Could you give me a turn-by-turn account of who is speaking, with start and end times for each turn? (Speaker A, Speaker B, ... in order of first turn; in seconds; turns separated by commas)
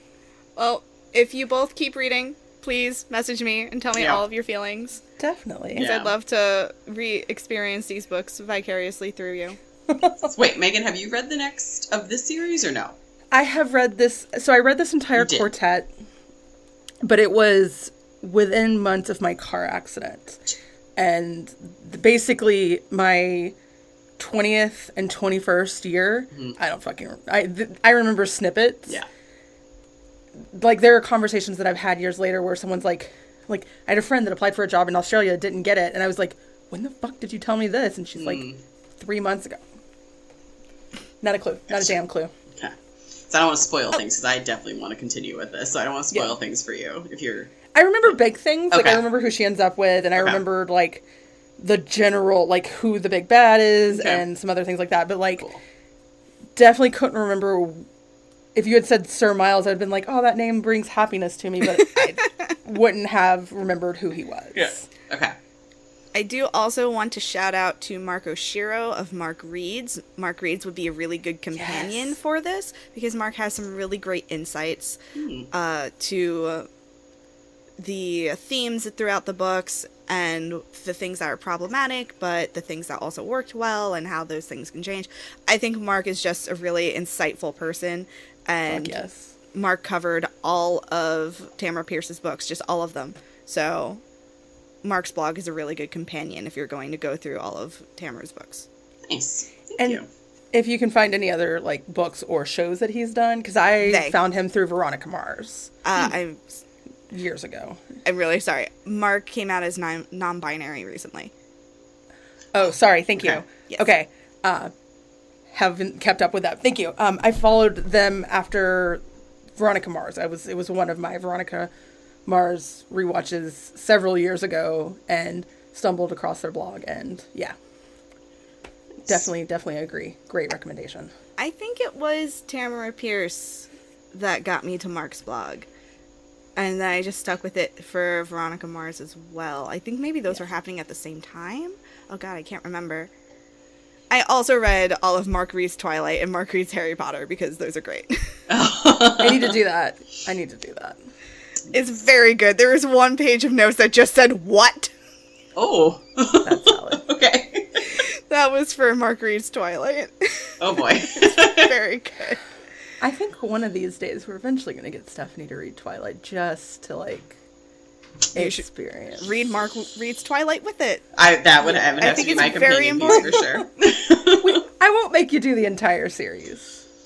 Speaker A: 0.6-5.0, Speaker B: 4.0-4.2, Speaker C: 5.2-5.9, Speaker B: 5.8-6.1, Speaker A: 5.8-9.6, Speaker C: 9.9-10.3, Speaker B: 10.2-12.9, Speaker C: 13.3-15.9, Speaker B: 15.2-15.5, Speaker C: 17.0-20.4, Speaker C: 20.9-23.6, Speaker C: 24.2-29.0, Speaker C: 30.5-38.4, Speaker B: 38.2-38.6, Speaker C: 39.0-39.6, Speaker C: 41.2-42.3, Speaker B: 43.3-47.5, Speaker C: 46.1-46.4, Speaker C: 47.7-51.0, Speaker B: 48.7-49.0, Speaker B: 50.2-50.4, Speaker C: 51.6-55.5, Speaker B: 53.9-54.2, Speaker C: 56.5-57.9, Speaker C: 58.5-64.8, Speaker B: 64.5-65.3, Speaker A: 66.1-75.0, Speaker C: 71.5-72.2, Speaker B: 75.1-75.5, Speaker A: 75.5-76.7, Speaker A: 77.8-89.0, Speaker C: 88.7-89.3, Speaker A: 89.5-94.0, Speaker A: 94.8-98.7, Speaker B: 99.1-100.0, Speaker C: 100.5-105.7, Speaker A: 103.8-104.2, Speaker A: 105.8-106.6, Speaker C: 107.1-107.8, Speaker A: 108.0-111.3, Speaker C: 112.5-114.7, Speaker C: 115.5-119.0, Speaker C: 119.5-121.7, Speaker C: 122.2-127.5, Speaker C: 129.1-131.1, Speaker A: 131.4-135.7, Speaker A: 136.6-143.1, Speaker A: 144.1-148.4, Speaker B: 148.5-149.5, Speaker C: 149.2-151.0, Speaker A: 151.7-154.9, Speaker B: 155.6-157.8, Speaker C: 156.4-157.0, Speaker A: 158.3-162.4, Speaker B: 160.6-161.7, Speaker C: 163.0-167.4, Speaker A: 168.3-168.6, Speaker C: 168.3-169.3, Speaker A: 169.2-171.0, Speaker B: 171.2-174.6, Speaker C: 171.6-172.3, Speaker A: 172.0-173.3, Speaker C: 173.1-173.6, Speaker C: 174.4-176.8